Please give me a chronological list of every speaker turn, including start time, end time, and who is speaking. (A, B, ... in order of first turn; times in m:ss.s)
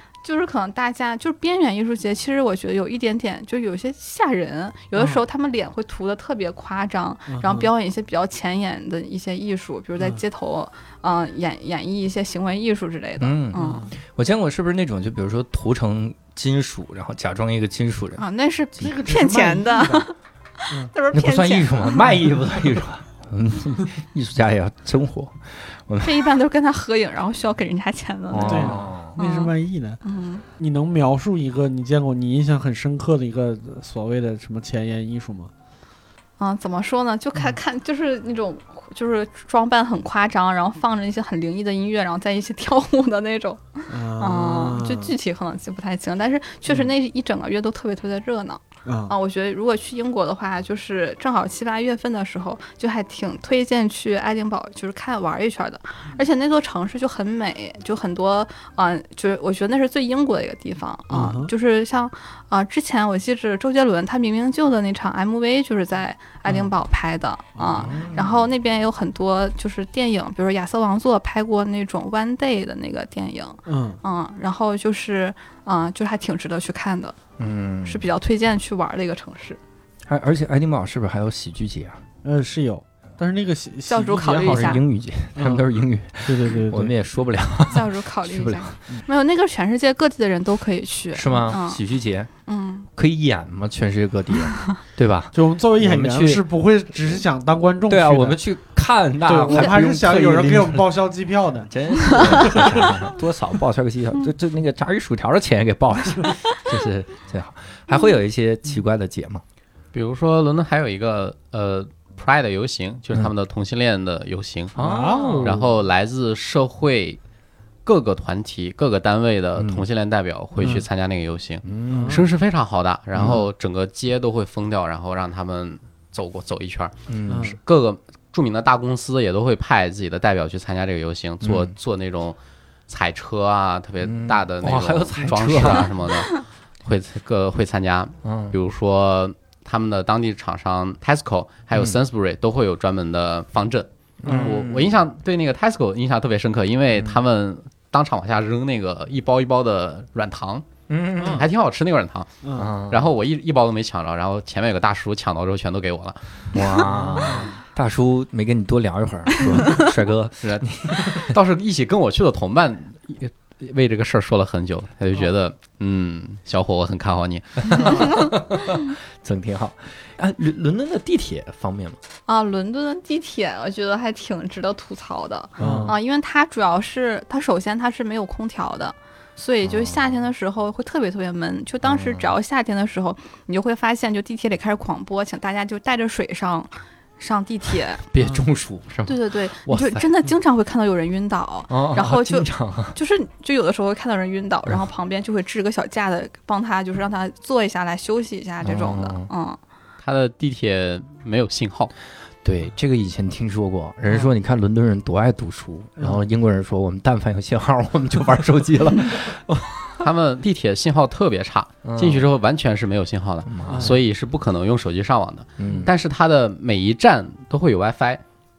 0:00.2-0:13.8 A
0:05.0-0:05.2 B
0:07.3-0:07.7 B
0:13.2-0:18.2 C
0:13.5-0:13.9 B
0:18.2-0:22.1 A
0:18.8-0:20.0 B
0:21.1-0:26.3 C
0:26.0-0:30.4 A
0:28.3-0:29.1 C
0:28.4-0:30.0 B
0:30.6-0:35.5 B
0:36.4-1:17.2 A
0:43.9-0:45.1 B
0:48.8-0:49.1 B
1:01.1-1:01.5 B
1:07.7-1:08.4 C
1:13.6-1:14.0 B
1:17.4-1:18.0 C
1:17.8-1:19.6 A
1:20.1-1:22.0 C
1:22.2-1:24.8 B
1:23.9-1:24.8 A
1:24.4-1:28.8 C
1:25.4-1:25.7 B
1:26.2-1:26.9 B
1:27.7-1:31.8 A
1:31.1-1:32.3 C
1:32.4-1:32.9 A
1:32.9-1:36.4 C
1:35.3-1:38.4 B
1:37.0-1:37.2 C
1:37.8-1:40.9 C
1:39.2-1:43.0 B
1:39.5-1:39.8 A
1:41.7-1:49.4 C
1:49.9-1:54.7 D
1:54.7-1:55.7 C
1:54.8-1:55.6 B
1:55.4-1:57.2 D
1:57.8-2:12.4 D
1:59.6-1:59.8 C
2:01.6-2:02.2 C
2:01.9-2:02.2 B
2:03.1-2:03.4 C
2:07.1-2:07.6 C
2:07.3-2:07.6 B
2:11.4-2:11.7 C
2:12.9-2:30.6 D
2:14.0-2:16.0 C
2:18.2-2:18.6 C
2:24.2-2:25.0 C
2:24.2-2:24.5 B
2:30.9-2:31.4 C
2:31.2-2:32.4 D
2:32.4-2:32.7 B
2:32.5-2:33.1 C
2:32.9-2:37.4 D
2:36.5-2:41.3 C
2:36.7-2:37.5 B
2:40.4-2:48.1 D
2:47.7-2:52.0 C
2:52.2-3:08.0 A
2:55.6-2:55.9 C
2:55.6-2:55.9 B
2:59.6-3:00.0 C
3:01.8-3:02.3 C
3:08.1-3:10.0 C
3:09.0-3:19.6 A
3:11.7-3:13.0 C
3:18.6-3:19.3 C
3:20.0-3:21.9 D
3:22.4-3:30.0 C
3:30.0-3:38.2 D
3:31.8-3:32.3 C
3:33.4-3:34.0 C
3:33.7-3:34.0 B
3:35.6-3:35.9 C